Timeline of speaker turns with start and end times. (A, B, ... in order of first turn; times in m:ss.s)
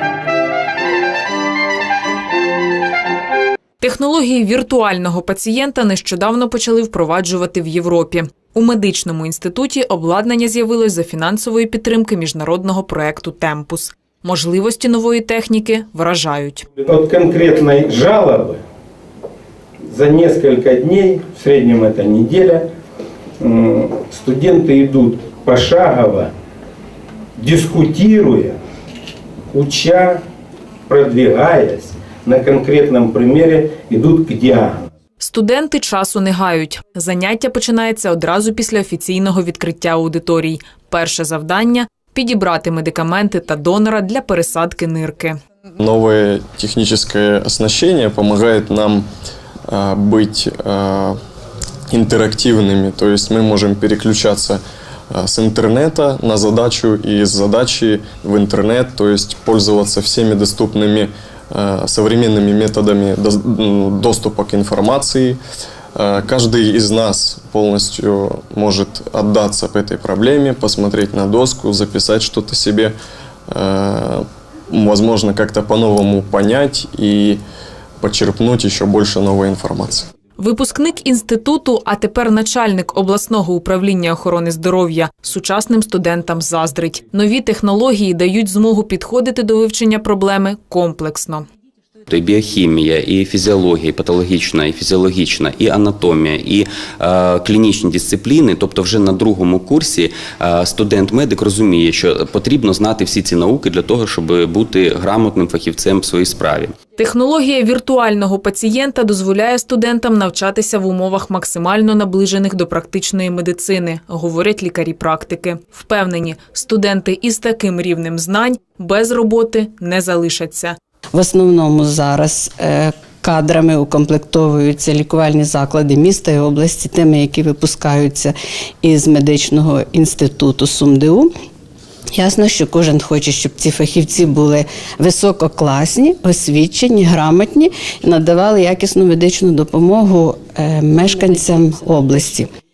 0:03.8-0:16.7 A
0:16.8-0:18.6 B
0:19.9-0:22.6 B
0:23.4-0:26.3 B
0:27.4-0:28.6 B
0:29.5-0:30.2 B
0:30.9-0:34.8 B
0:35.2-0:45.4 A
0:45.8-0:49.0 C
0:49.7-0:51.2 C
0:51.9-0:54.6 C
0:55.1-1:05.4 C
1:06.0-1:12.9 C
1:13.5-1:17.4 C
1:18.0-1:20.1 C
1:20.4-1:31.4 A
1:32.1-1:46.8 D
1:47.0-2:00.7 A
2:01.1-2:11.3 E
2:12.1-2:22.5 E